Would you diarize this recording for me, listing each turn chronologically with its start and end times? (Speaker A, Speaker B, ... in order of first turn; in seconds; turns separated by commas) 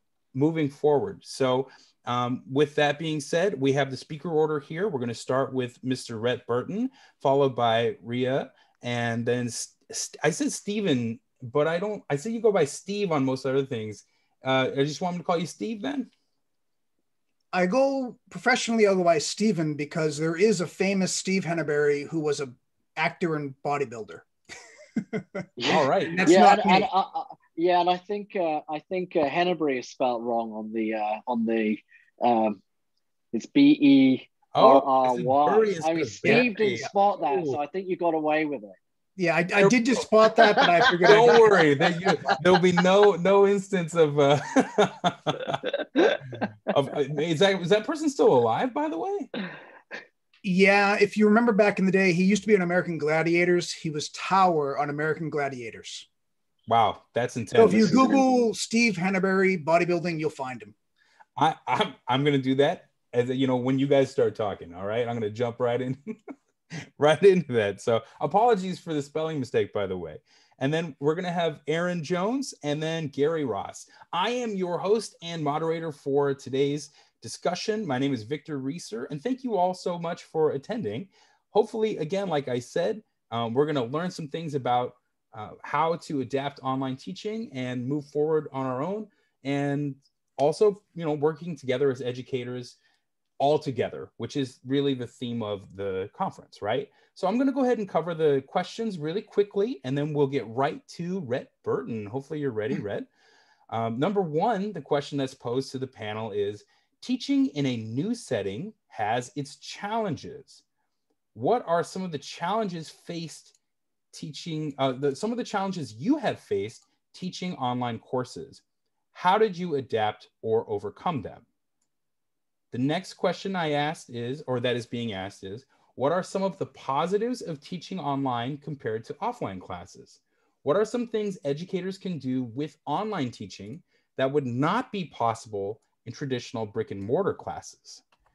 Speaker A: 0.3-16.1, Speaker B: 17.5-24.2, Speaker B: 25.1-26.9, Speaker C: 25.6-32.6, Speaker A: 25.7-26.3, Speaker C: 33.3-38.8, Speaker A: 34.5-37.6, Speaker B: 36.2-36.9, Speaker B: 39.2-41.6, Speaker C: 40.8-41.4, Speaker A: 41.1-45.6, Speaker A: 46.7-49.3, Speaker B: 50.4-56.1, Speaker A: 56.7-58.2, Speaker B: 57.5-60.7, Speaker A: 61.4-66.2, Speaker A: 67.0-92.8, Speaker A: 93.4-103.1, Speaker A: 103.7-110.6, Speaker A: 111.3-113.5, Speaker A: 114.1-118.6, Speaker A: 119.1-121.4, Speaker A: 122.7-138.0